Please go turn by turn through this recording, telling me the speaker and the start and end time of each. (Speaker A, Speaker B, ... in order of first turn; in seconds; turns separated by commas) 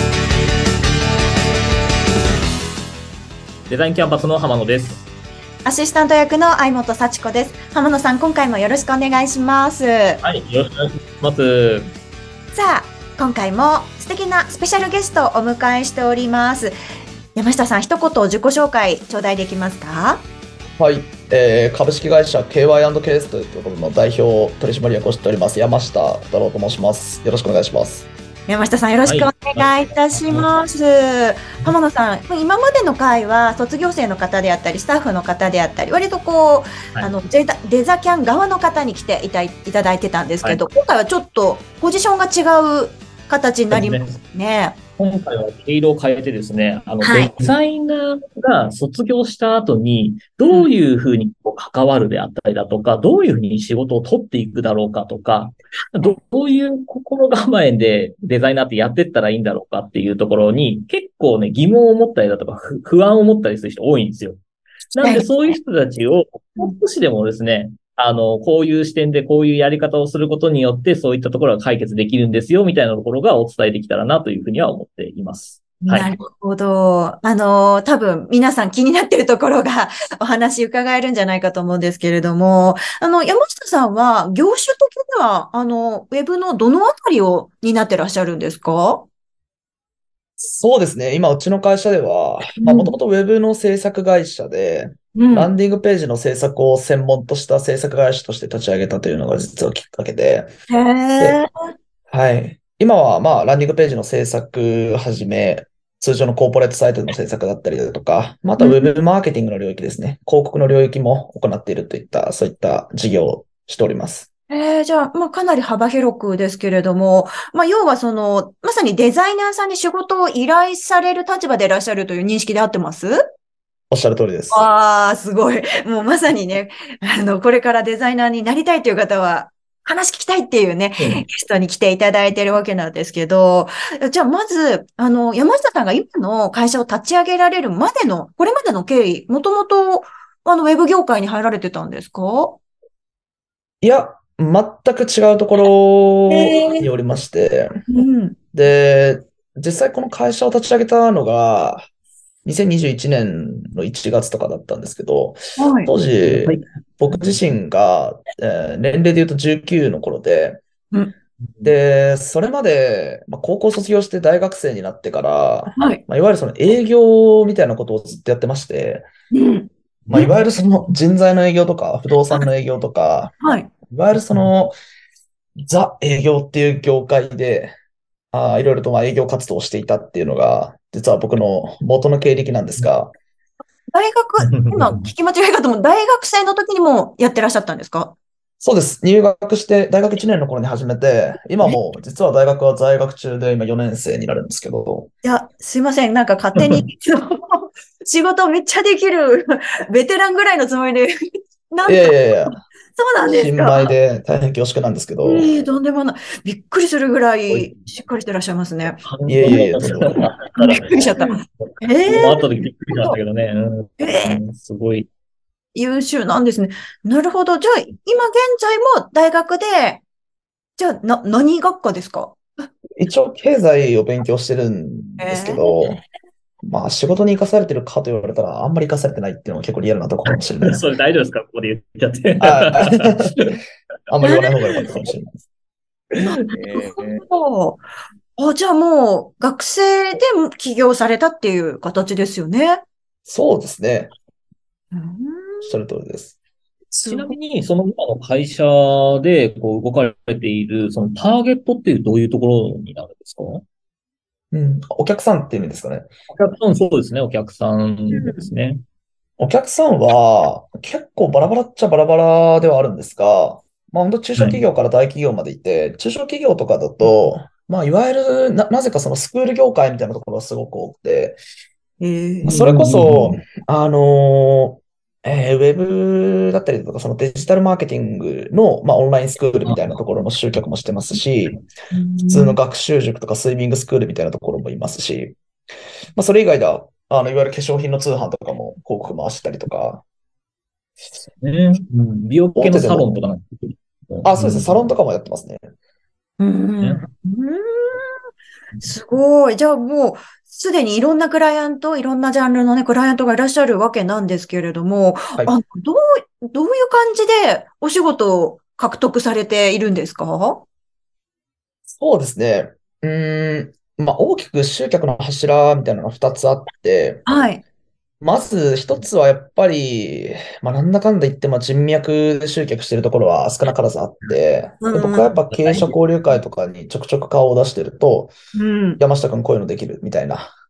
Speaker A: 3.7-5.1, Speaker B: 5.6-10.2, Speaker A: 10.2-11.9, Speaker B: 12.5-16.7, Speaker B: 17.3-20.2, Speaker C: 20.8-28.1, Speaker B: 28.5-44.8, Speaker A: 29.1-30.5, Speaker A: 43.7-44.2, Speaker A: 45.0-64.4, Speaker B: 47.0-47.5, Speaker B: 50.4-50.7, Speaker A: 64.9-76.1, Speaker B: 65.0-65.6, Speaker B: 75.8-89.1, Speaker C: 90.4-100.5, Speaker B: 92.6-92.9, Speaker B: 95.2-95.5, Speaker B: 100.7-101.5, Speaker C: 102.1-114.3, Speaker B: 108.6-108.9, Speaker B: 114.5-123.2, Speaker C: 123.9-124.7, Speaker B: 124.5-142.6, Speaker A: 131.0-131.2, Speaker C: 143.8-147.7, Speaker B: 146.3-146.9, Speaker B: 147.9-148.4, Speaker C: 148.5-151.9, Speaker C: 152.4-160.6, Speaker B: 155.6-155.9, Speaker A: 156.2-157.4, Speaker C: 161.6-169.1, Speaker B: 165.8-166.0, Speaker B: 169.3-170.3, Speaker C: 170.1-173.3, Speaker B: 173.4-173.7, Speaker C: 173.9-174.8, Speaker C: 175.6-177.7, Speaker C: 178.3-183.1, Speaker B: 183.9-188.2, Speaker A: 184.4-185.1, Speaker C: 188.6-195.1, Speaker B: 195.2-201.1, Speaker A: 196.6-196.8, Speaker B: 201.7-202.4, Speaker C: 201.8-202.5, Speaker B: 202.9-203.9, Speaker C: 203.2-205.5, Speaker B: 205.2-209.0, Speaker A: 207.5-207.8, Speaker A: 209.0-215.1, Speaker C: 209.2-210.2, Speaker B: 210.6-213.2, Speaker B: 214.0-214.4, Speaker B: 215.7-220.0, Speaker B: 220.8-222.4, Speaker C: 223.0-226.0, Speaker B: 225.2-225.6, Speaker C: 226.6-230.8, Speaker A: 230.3-233.6, Speaker C: 232.4-233.3, Speaker C: 234.1-235.4, Speaker B: 234.2-234.9, Speaker A: 236.1-237.2, Speaker B: 236.2-237.8, Speaker B: 238.4-242.8, Speaker C: 243.2-244.1, Speaker B: 244.9-245.8, Speaker C: 245.6-246.4, Speaker B: 246.9-247.3, Speaker A: 247.1-253.6, Speaker C: 254.5-256.1, Speaker A: 256.3-258.8, Speaker B: 258.1-258.5, Speaker C: 259.4-271.4, Speaker A: 264.4-264.6, Speaker B: 272.0-272.6, Speaker C: 272.4-281.6, Speaker A: 272.5-273.4, Speaker B: 281.9-282.6, Speaker C: 282.3-285.4, Speaker C: 286.1-290.0, Speaker A: 291.4-294.9, Speaker C: 292.6-293.1, Speaker C: 294.2-295.6, Speaker B: 296.4-298.1, Speaker B: 298.8-310.7, Speaker C: 311.9-317.2, Speaker B: 317.2-317.6, Speaker C: 318.2-328.3, Speaker B: 324.8-325.9, Speaker B: 328.5-329.0, Speaker C: 329.0-330.5